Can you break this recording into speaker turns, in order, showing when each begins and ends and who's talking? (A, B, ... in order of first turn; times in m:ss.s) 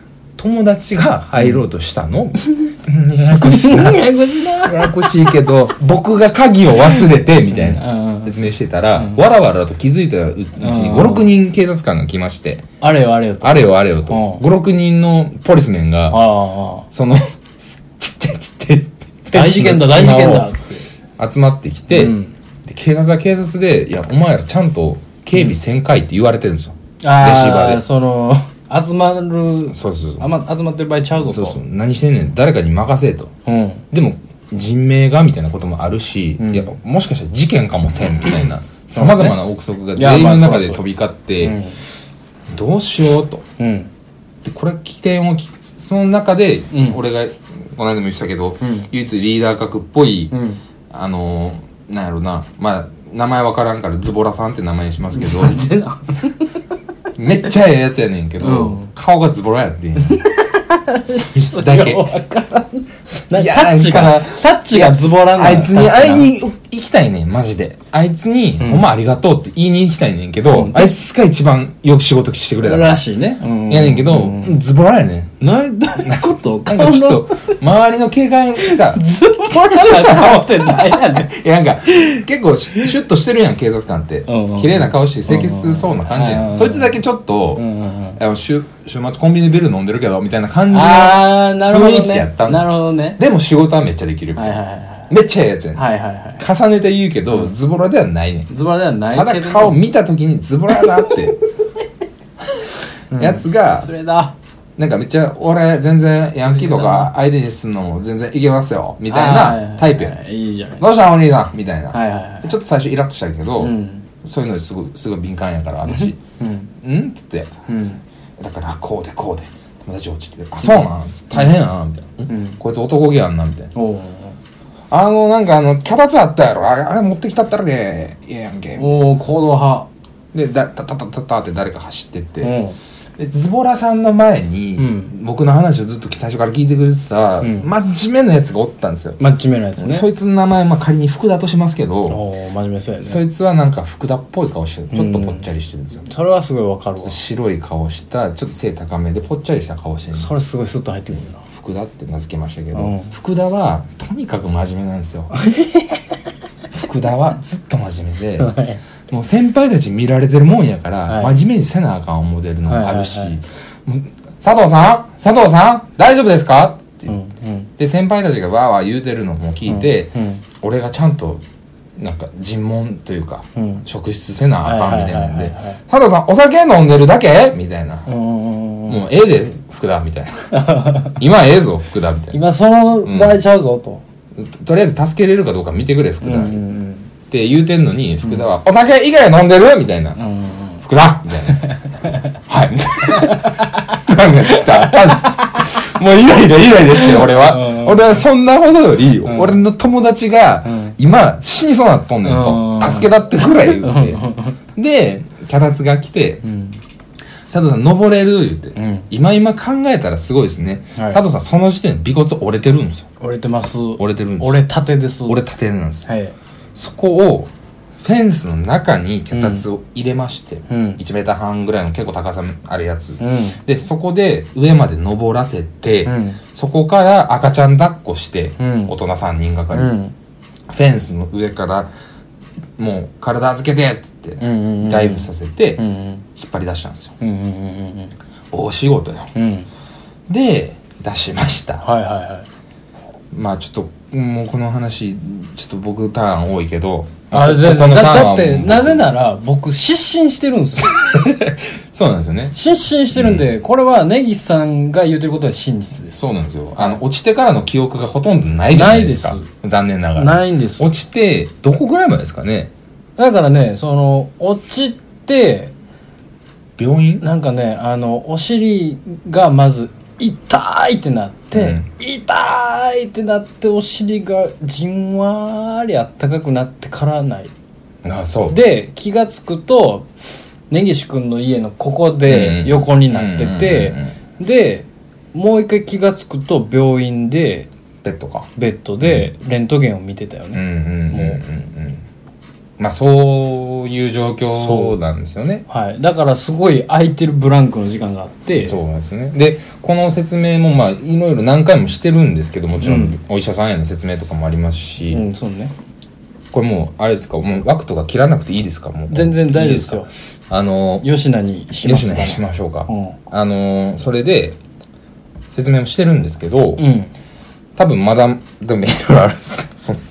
0:00.4-0:12.6 A
0:01.4-0:01.6 B
0:03.4-0:05.2 B
0:06.9-0:08.4 B
0:09.0-0:09.2 B
0:10.6-0:11.3 B
0:12.8-0:14.4 B
0:13.4-0:16.2 A
0:16.1-0:16.9 B
0:16.9-0:20.5 A
0:19.3-0:20.9 B
0:21.2-0:27.8 A
0:21.9-0:22.3 B
0:27.0-0:31.6 B
0:29.7-0:30.3 A
0:31.2-0:33.3 A
0:33.4-0:33.8 B
0:33.9-0:41.6 A
0:36.4-0:36.7 B
0:38.0-0:39.4 B
0:39.9-0:40.8 B
0:41.4-0:41.8 B
0:42.5-0:43.4 A
0:43.6-0:43.9 B
0:44.4-0:50.3 A
0:46.7-0:47.0 B
0:48.6-0:48.9 B
0:50.3-0:50.6 B
0:50.9-0:55.6 A
0:55.1-0:56.6 B
0:57.2-1:00.3 A
0:58.4-0:58.9 B
1:00.0-1:06.3 B
1:01.1-1:02.1 A
1:03.1-1:13.0 A
1:08.6-1:08.9 B
1:10.5-1:11.0 B
1:12.6-1:14.6 B
1:13.7-1:34.6 A
1:15.4-1:17.6 B
1:18.6-1:21.3 B
1:24.3-1:27.0 B
1:27.6-1:28.2 B
1:30.7-1:33.2 B
1:34.3-1:35.1 B
1:35.1-1:35.8 A
1:35.7-1:36.4 B
1:36.4-1:38.5 A
1:38.5-1:39.8 B
1:39.1-1:41.3 A
1:40.8-1:41.2 B
1:43.1-1:44.3 B
1:43.2-1:43.9 A
1:44.8-1:50.2 A
1:46.4-1:47.1 B
1:49.1-1:50.8 B
1:50.8-1:56.2 A
1:51.9-1:52.5 B
1:53.6-1:54.0 B
1:55.9-1:56.7 B
1:56.8-1:57.5 A
1:57.7-1:58.0 B
1:58.4-2:03.7 A
2:02.3-2:02.6 B
2:03.7-2:04.4 B
2:04.9-2:09.0 A
2:08.8-2:09.9 B
2:10.3-2:12.5 A
2:12.4-2:12.8 B
2:13.2-2:19.2 A
2:14.8-2:15.1 B
2:17.4-2:17.7 B
2:19.2-2:20.1 B
2:19.8-2:22.2 A
2:22.1-2:23.2 B
2:23.0-2:26.1 A
2:24.9-2:25.5 B
2:26.0-2:27.2 B
2:27.0-2:30.3 A
2:30.1-2:31.4 B
2:31.5-2:35.3 A
2:32.7-2:33.1 B
2:35.4-2:36.0 B
2:36.7-2:38.5 A
2:38.4-2:38.8 B
2:39.1-2:47.1 A
2:41.1-2:41.4 B
2:42.7-2:43.3 B
2:47.1-2:47.7 B
2:47.8-2:51.4 A
2:49.6-2:50.4 B
2:52.0-2:58.1 A
2:53.6-2:53.8 B
2:54.6-2:55.8 B
2:58.1-2:59.1 B
2:58.9-3:02.4 A
3:00.5-3:01.2 B
3:02.3-3:04.0 B
3:03.0-3:03.4 A
3:04.3-3:06.6 A
3:06.2-3:07.1 B
3:07.3-3:10.2 A
3:10.2-3:10.8 B
3:10.8-3:11.6 A
3:11.4-3:12.3 B
3:12.5-3:26.4 A
3:13.0-3:15.8 B
3:16.9-3:18.2 B
3:19.2-3:19.6 B
3:20.6-3:21.0 B
3:22.2-3:24.6 B
3:26.4-3:26.8 B
3:27.5-3:33.1 A
3:28.8-3:29.1 B
3:30.9-3:31.2 B
3:33.2-3:35.4 B
3:34.0-3:34.6 A
3:35.2-3:36.1 A
3:36.0-3:36.3 B
3:36.7-3:50.0 A
3:39.3-3:39.6 B
3:40.7-3:41.0 B
3:43.2-3:43.6 B
3:46.0-3:46.4 B
3:48.6-3:49.0 B
3:49.7-3:50.1 B
3:50.7-3:51.9 A
3:52.8-3:55.8 A
3:54.4-3:56.2 B
3:56.3-3:57.1 A
3:57.2-3:58.1 B
3:58.5-3:59.3 A
3:59.3-3:59.7 B
4:00.3-4:01.8 A
4:01.8-4:02.4 B
4:03.3-4:09.1 A
4:07.3-4:11.3 B
4:10.9-4:12.6 A
4:12.5-4:16.2 B
4:13.1-4:13.5 A
4:16.2-4:22.7 A
4:18.7-4:19.5 B
4:20.2-4:20.9 B
4:23.2-4:25.7 B
4:26.8-4:27.2 A
4:27.2-4:37.5 B
4:31.5-4:31.8 A
4:38.0-4:38.6 A
4:38.5-4:40.1 B
4:40.7-4:47.7 B
4:42.2-4:44.1 A
4:48.0-4:48.5 A
4:48.6-4:51.4 B
4:49.0-4:49.3 A
4:50.5-4:52.0 A
4:52.8-4:55.6 A
4:54.5-4:55.0 B
4:55.7-4:58.8 B
4:58.6-5:05.3 A
5:02.8-5:03.2 B
5:05.1-5:05.7 B
5:06.5-5:11.1 A
5:09.1-5:10.1 B
5:11.0-5:13.2 B
5:11.8-5:14.6 A
5:15.5-5:16.8 A
5:16.8-5:17.1 B
5:17.8-5:20.0 A